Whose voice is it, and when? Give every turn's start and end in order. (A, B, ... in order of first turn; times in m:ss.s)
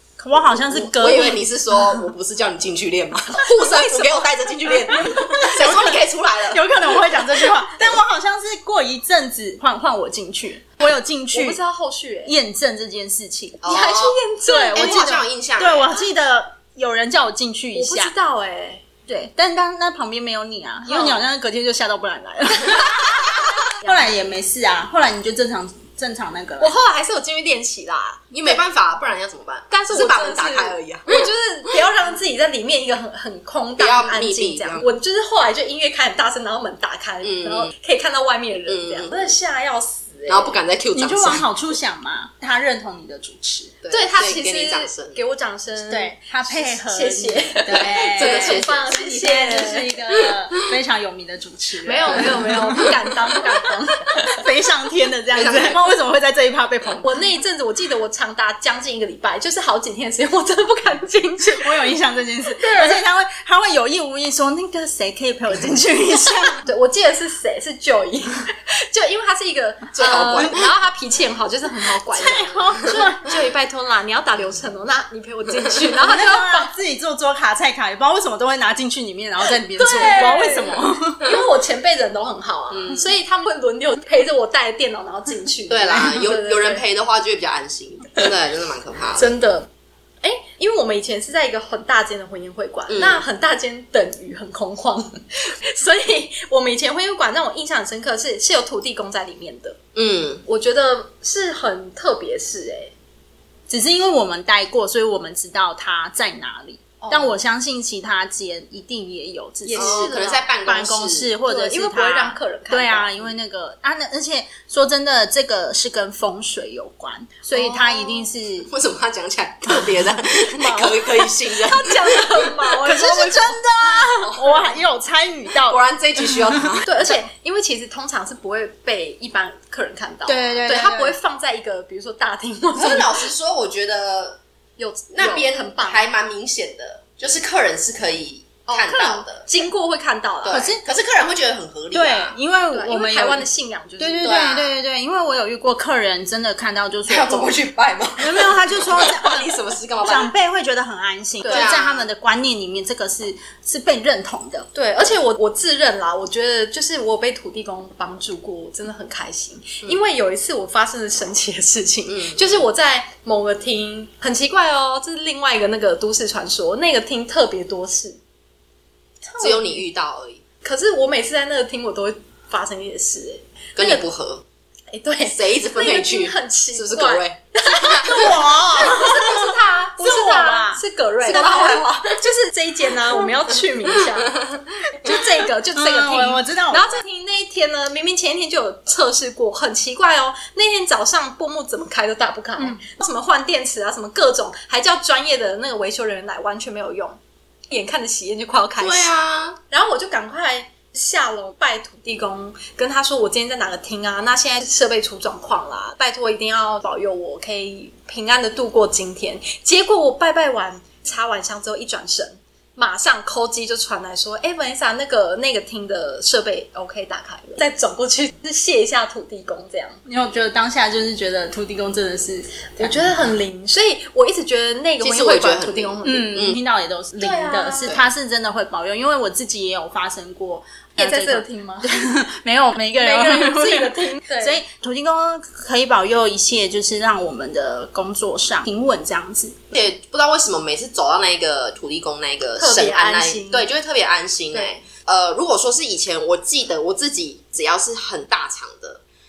0:00.2-0:01.5 A
0:00.7-0:06.7 B
0:03.4-0:05.5 C
0:05.0-0:11.6 A
0:11.3-0:12.4 C
0:12.3-0:13.6 A
0:13.6-0:14.2 B
0:13.6-0:15.2 C
0:14.5-0:18.1 A
0:14.7-0:15.9 B
0:17.7-0:18.8 C
0:19.1-0:26.7 A
0:20.8-0:21.2 C
0:22.7-0:23.0 C
0:26.6-0:28.6 C
0:28.3-0:31.3 B
0:29.7-0:40.6 C
0:33.8-0:34.9 B
0:37.2-0:37.7 B
0:38.7-0:39.3 B
0:40.3-0:41.4 B
0:40.9-0:43.8 A
0:43.8-0:45.2 B
0:43.9-0:50.0 C
0:45.9-0:52.9 A
0:47.7-0:48.9 B
0:51.8-0:54.3 C
0:54.3-0:57.2 A
0:55.3-0:55.8 B
0:57.0-1:01.8 C
1:01.6-1:06.6 A
1:02.5-1:03.0 C
1:06.6-1:16.7 C
1:10.0-1:10.7 B
1:12.1-1:13.3 A
1:16.0-1:21.2 A
1:19.8-1:26.8 C
1:22.7-1:23.1 B
1:25.7-1:29.3 B
1:29.2-1:29.7 C
1:30.2-1:39.8 C
1:32.9-1:33.2 B
1:40.0-1:40.4 B
1:40.5-1:42.9 C
1:43.7-1:58.7 A
1:47.0-1:47.4 C
1:49.6-1:50.5 C
1:49.8-1:51.3 B
1:51.4-1:53.2 C
1:57.5-1:58.2 C
1:58.7-2:02.5 B
2:00.6-2:01.0 A
2:01.6-2:03.6 C
2:02.8-2:06.7 A
2:04.0-2:04.7 B
2:05.7-2:07.0 B
2:06.8-2:13.2 C
2:10.3-2:11.2 A
2:12.8-2:14.4 B
2:14.8-2:16.0 C
2:15.1-2:19.5 B
2:18.7-2:20.7 C
2:20.4-2:22.4 B
2:20.5-2:20.8 A
2:21.9-2:23.5 A
2:22.7-2:24.4 C
2:24.0-2:27.6 A
2:24.2-2:24.8 B
2:27.1-2:30.3 B
2:28.2-2:34.7 A
2:31.4-2:31.8 C
2:31.5-2:32.1 B
2:34.7-2:48.2 C
2:42.1-2:42.6 B
2:49.2-2:49.8 C
2:49.4-2:50.4 B
2:50.6-2:54.0 C
2:53.8-2:54.4 B
2:54.9-3:17.2 C
2:55.2-2:58.4 B
2:58.0-3:01.8 A
3:01.3-3:02.2 B
3:03.9-3:05.2 B
3:05.8-3:07.0 A
3:17.7-3:19.1 C
3:18.8-3:19.6 B
3:19.7-3:40.0 C
3:40.1-3:43.2 A
3:42.8-3:46.4 C
3:45.0-3:46.6 B
3:46.0-3:59.7 A
3:47.2-3:47.9 C
3:51.0-3:51.9 C
3:52.9-3:54.6 C
3:59.7-4:09.0 B
4:02.6-4:03.7 C
4:04.5-4:04.8 C